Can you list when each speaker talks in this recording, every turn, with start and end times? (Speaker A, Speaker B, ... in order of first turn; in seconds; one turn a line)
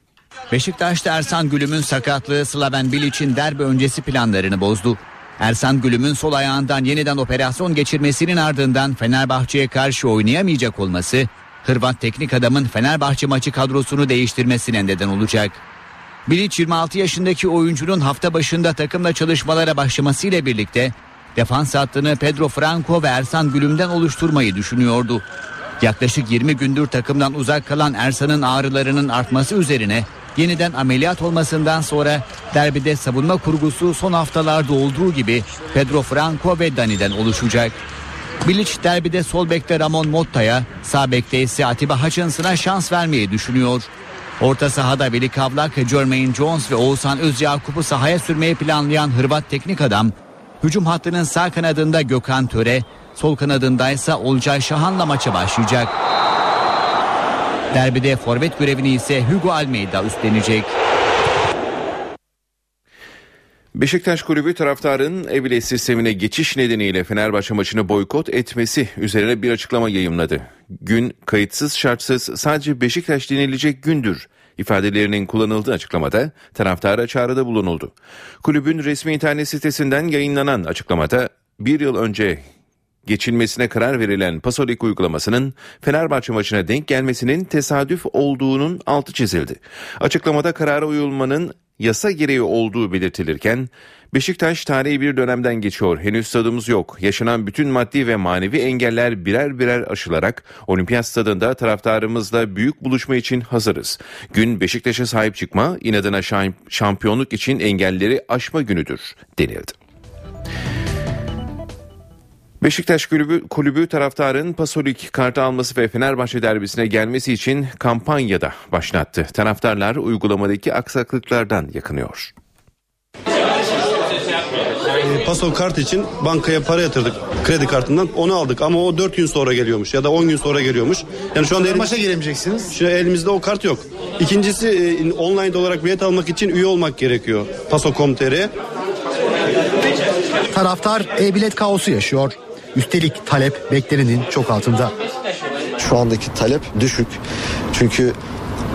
Speaker A: 0.5-15.6
Speaker A: 16.3-25.2
Speaker A: 25.8-37.8
Speaker A: 38.4-43.9
Speaker A: 44.4-56.0
Speaker A: 57.7-60.7
Speaker B: 63.8-82.4
Speaker B: 83.1-109.7
Speaker B: 112.6-122.3
Speaker C: 125.0-132.0
Speaker D: 131.7-132.7
Speaker C: 132.7-138.5
Speaker D: 140.5-144.9
Speaker E: 145.8-148.2